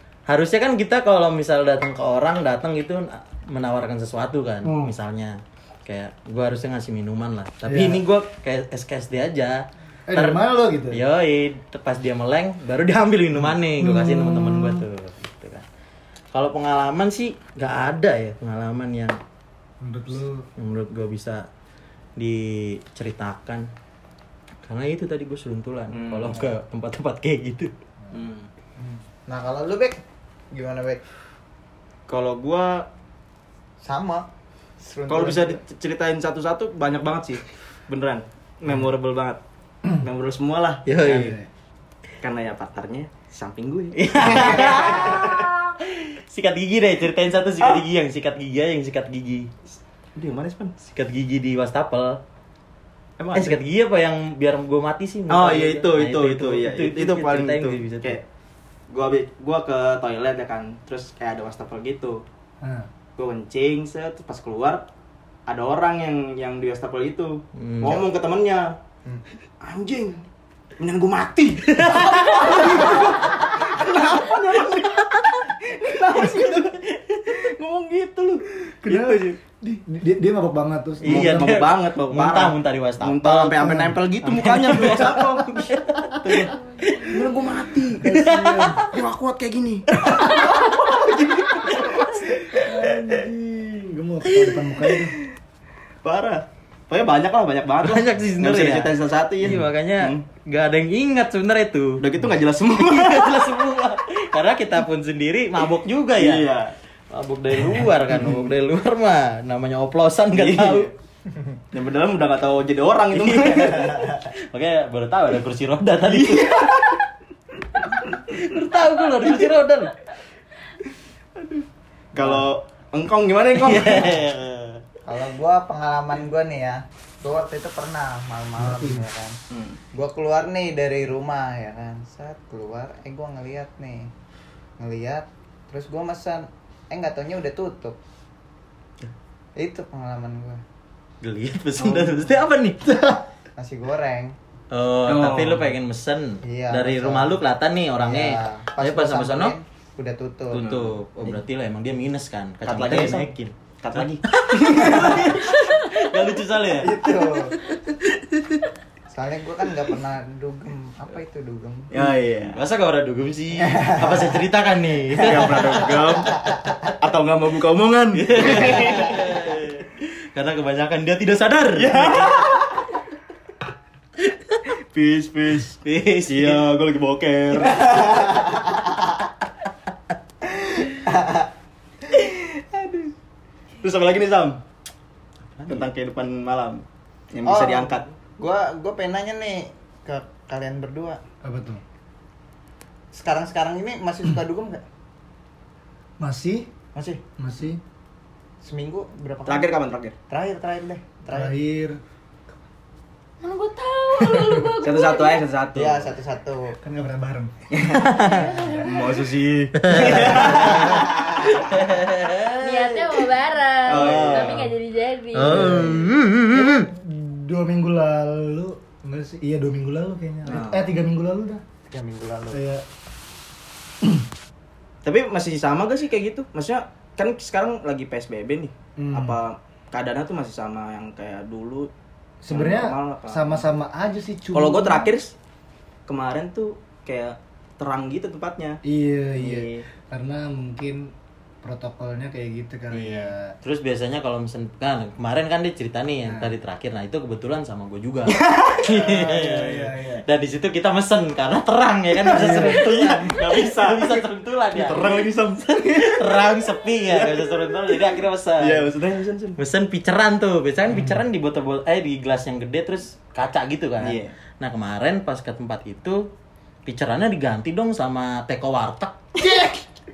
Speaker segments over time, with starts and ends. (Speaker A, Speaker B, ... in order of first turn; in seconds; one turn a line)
Speaker A: 0.3-15.7
Speaker B: 4.6-5.0
Speaker B: 7.7-8.0
Speaker B: 10.1-11.0
Speaker B: 13.8-14.9
Speaker A: 16.3-19.2
Speaker B: 19.8-20.5
Speaker A: 20.6-21.5
Speaker A: 22.2-23.7
Speaker A: 24.7-27.7
Speaker C: 25.9-26.5
Speaker C: 28.1-28.5
Speaker D: 28.9-30.0
Speaker D: 30.5-31.0
Speaker C: 32.1-32.9
Speaker D: 33.8-34.3
Speaker D: 34.8-35.6
Speaker C: 35.1-39.4
Speaker C: 40.0-41.4
Speaker A: 40.9-41.4
Speaker B: 41.2-41.5
Speaker C: 42.2-45.5
Speaker A: 44.0-49.5
Speaker C: 50.1-50.8
Speaker A: 50.8-52.2
Speaker C: 53.2-53.6
Speaker A: 53.3-58.2
Speaker C: 55.3-58.2
Speaker C: 58.9-62.2
Speaker B: 62.6-62.9
Speaker C: 63.2-64.9
Speaker C: 65.5-68.8
Speaker A: 67.6-68.0
Speaker C: 69.6-70.2
Speaker C: 70.8-79.4
Speaker A: 71.7-73.1
Speaker A: 76.4-77.5
Speaker B: 78.8-81.6
Speaker A: 81.0-87.3
Speaker C: 81.0-86.5
Speaker B: 83.6-84.0
Speaker E: 86.3-87.5
Speaker C: 87.1-88.1
Speaker A: 87.9-89.0
Speaker B: 88.0-89.8
Speaker C: 89.9-92.4
Speaker A: 91.5-92.5
Speaker B: 92.5-95.2
Speaker A: 94.3-94.7
Speaker C: 96.0-100.2
Speaker A: 97.8-102.1
Speaker C: 102.0-103.6
Speaker A: 102.7-106.5
Speaker C: 106.2-106.8
Speaker A: 107.1-110.9
Speaker C: 107.7-108.4
Speaker C: 110.3-110.9
Speaker C: 111.7-114.1
Speaker A: 113.1-116.9
Speaker C: 116.1-117.0
Speaker A: 117.9-120.0
Speaker C: 121.3-124.2
Speaker A: 123.6-124.8
Speaker D: 125.0-129.4
Speaker B: 128.6-129.1
Speaker C: 129.5-129.8
Speaker D: 129.9-134.1
Speaker D: 134.8-138.0
Speaker D: 139.6-140.6
Speaker A: 141.2-142.8
Speaker B: 142.8-143.2
Speaker D: 143.6-144.4
Speaker A: 144.7-149.6
Speaker C: 145.1-145.7
Speaker D: 146.4-147.4
Speaker D: 148.0-151.4
Speaker A: 150.5-158.6
Speaker C: 150.6-150.9
Speaker C: 152.7-153.3
Speaker C: 153.8-155.5
Speaker D: 156.8-157.6
Speaker D: 159.1-162.0
Speaker C: 161.9-162.6
Speaker A: 162.4-166.4
Speaker D: 163.7-164.3
Speaker C: 165.1-166.4
Speaker C: 167.0-169.6
Speaker A: 168.2-172.6
Speaker C: 171.8-172.7
Speaker A: 174.3-174.6
Speaker C: 174.9-178.8
Speaker A: 175.7-176.6
Speaker C: 182.1-183.1
Speaker C: 183.8-184.6
Speaker A: 185.5-185.9
Speaker C: 185.7-188.1
Speaker D: 187.4-191.2
Speaker B: 191.4-191.8
Speaker D: 193.1-194.8
Speaker B: 196.2-196.7
Speaker B: 197.4-197.8
Speaker D: 198.6-199.8
Speaker C: 199.5-200.2
Speaker D: 200.3-201.6
Speaker B: 201.3-202.0
Speaker E: 203.4-205.4
Speaker C: 204.8-206.1
Speaker D: 205.7-206.8
Speaker B: 206.8-207.5
Speaker C: 207.7-211.4
Speaker A: 207.9-208.5
Speaker E: 208.3-209.1
Speaker A: 209.8-213.2
Speaker E: 212.3-215.7
Speaker C: 213.8-214.7
Speaker A: 213.9-214.7
Speaker A: 215.3-216.9
Speaker B: 215.5-221.6
Speaker C: 220.5-220.9
Speaker D: 221.9-222.6
Speaker B: 222.5-222.8
Speaker C: 225.0-231.9
Speaker B: 229.0-229.4
Speaker B: 232.4-235.1
Speaker C: 232.5-233.6
Speaker C: 234.5-235.3
Speaker C: 236.1-238.8
Speaker B: 238.8-243.6
Speaker C: 239.4-239.9
Speaker A: 242.9-258.9
Speaker B: 246.3-246.5
Speaker C: 248.3-249.1
Speaker B: 249.0-250.2
Speaker C: 252.2-258.1
Speaker B: 252.3-252.9
Speaker C: 258.6-259.6
Speaker A: 259.6-266.3
Speaker C: 264.0-264.4
Speaker A: 266.9-269.3
Speaker B: 269.4-269.8